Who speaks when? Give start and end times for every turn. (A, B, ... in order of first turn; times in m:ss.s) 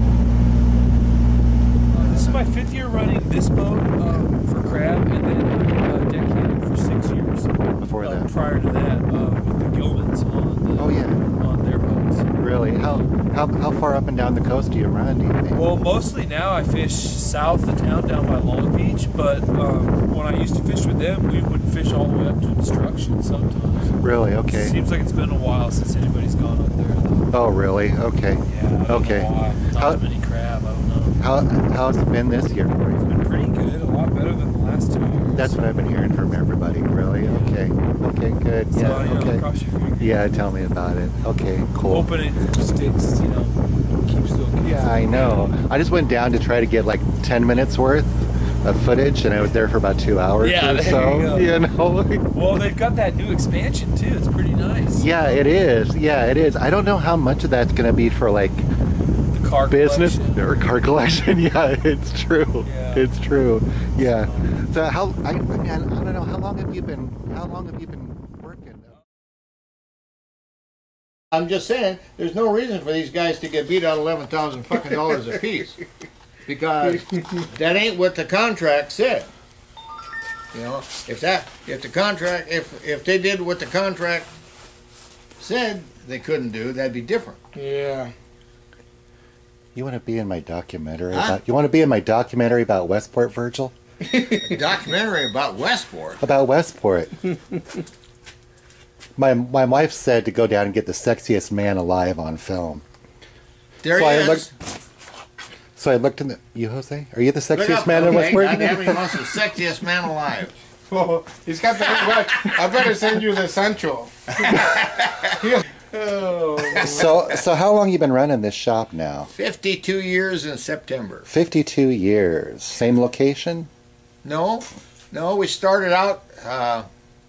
0:01.9-0:13.0 A
0:02.0-0:02.4 B
0:07.8-0:08.3 B
0:10.8-0:11.2 B
0:12.4-0:15.8 B
0:15.5-0:27.3 A
0:24.0-0:24.8 B
0:27.3-0:30.0 B
0:28.4-0:31.2 A
0:31.2-0:33.0 B
0:33.0-0:35.8 A
0:35.3-0:39.4 B
0:37.2-0:37.6 A
0:38.7-0:40.4 A
0:40.0-0:42.2 B
0:41.8-0:45.5 A
0:44.6-0:52.3 B
0:50.4-0:51.6 A
0:52.3-0:55.4 A
0:55.0-0:58.7 B
0:59.3-1:00.7 A
0:59.7-1:08.9 B
1:02.6-1:03.2 A
1:03.8-1:04.6 A
1:11.3-1:15.8 C
1:16.4-1:19.3 C
1:20.5-1:24.3 C
1:25.4-1:27.4 C
1:27.5-1:28.1 D
1:29.8-1:33.7 B
1:31.1-1:31.4 C
1:34.1-1:34.5 D
1:34.4-1:36.3 C
1:36.2-1:37.3 B
1:39.2-1:42.8 B
1:43.8-1:44.5 C
1:43.9-1:44.5 B
1:45.8-1:49.4 B
1:47.5-1:50.5 C
1:50.9-1:54.6 D
1:51.8-1:53.1 C
1:54.4-1:55.5 C
1:55.4-1:57.0 D
1:56.1-1:56.8 A
1:56.8-1:57.1 C
1:56.8-1:59.3 B
1:59.3-2:01.3 C
2:01.3-2:03.7 B
2:04.2-2:06.9 C